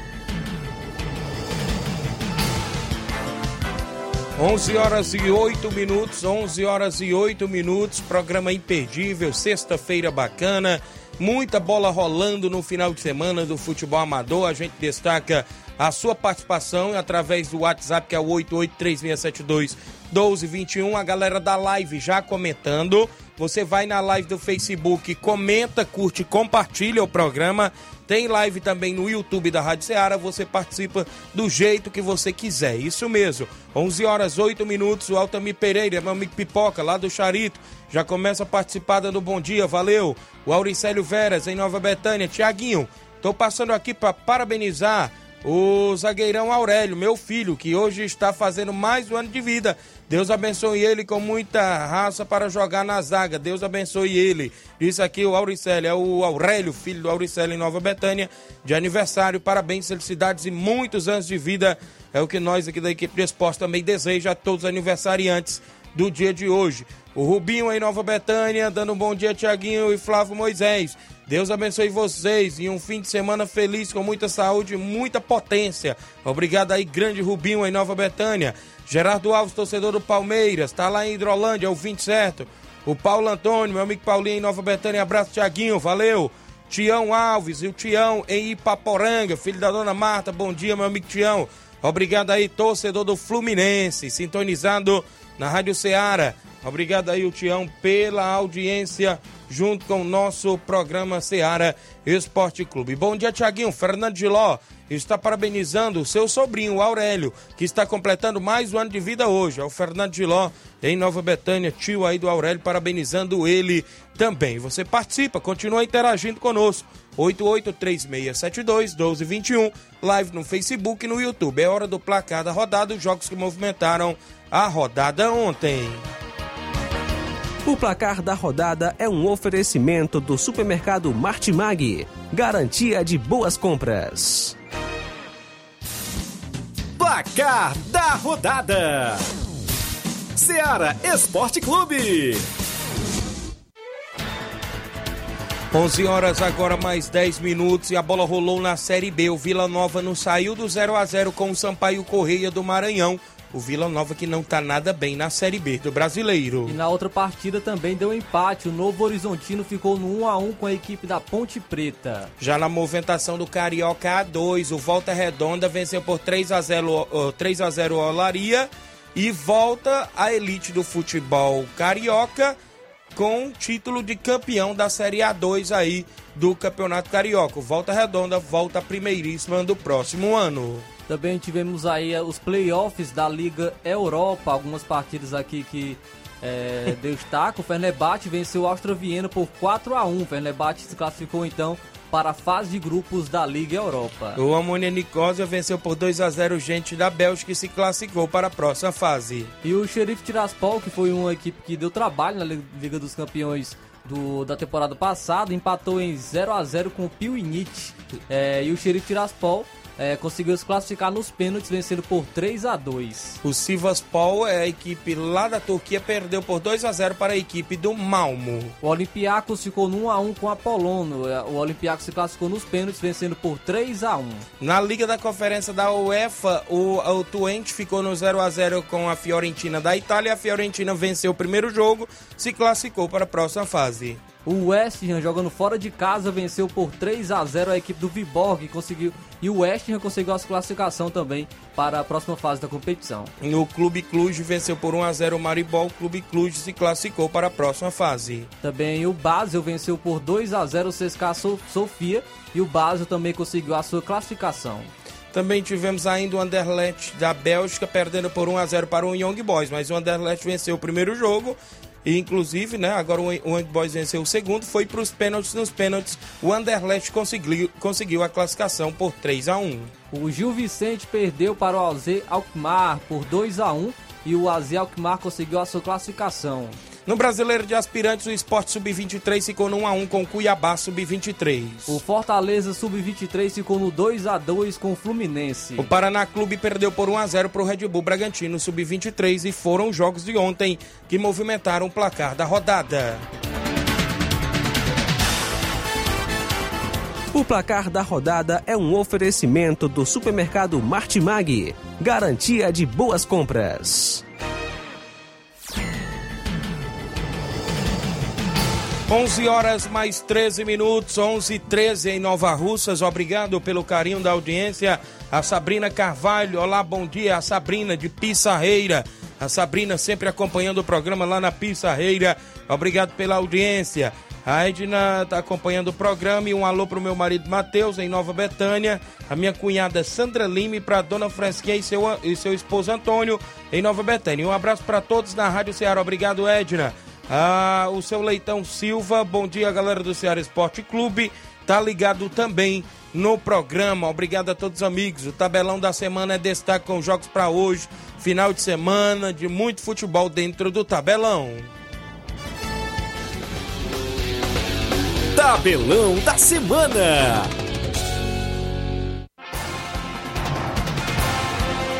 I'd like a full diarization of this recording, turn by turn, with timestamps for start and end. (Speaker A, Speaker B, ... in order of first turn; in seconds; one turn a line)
Speaker A: 4.4-126.1
Speaker B: 127.6-134.5
Speaker C: 137.0-139.2
Speaker C: 140.3-142.4
Speaker A: 145.7-156.8
Speaker D: 156.7-162.3
Speaker A: 162.4-172.6
Speaker A: 173.1-180.9
Speaker D: 181.1-194.4
Speaker A: 194.3-199.5
Speaker D: 199.6-213.4
Speaker A: 213.4-218.7
Speaker D: 218.8-224.4
Speaker A: 224.6-234.2
Speaker D: 234.4-243.3
Speaker A: 243.4-248.5
Speaker D: 248.6-254.9
Speaker A: 255.3-269.9
Speaker D: 270.1-276.8
Speaker A: 277.1-282.0
Speaker D: 281.9-285.9
Speaker A: 285.8-293.3
Speaker B: 297.3-304.2
Speaker A: 309.1-351.7
Speaker C: 355.3-357.5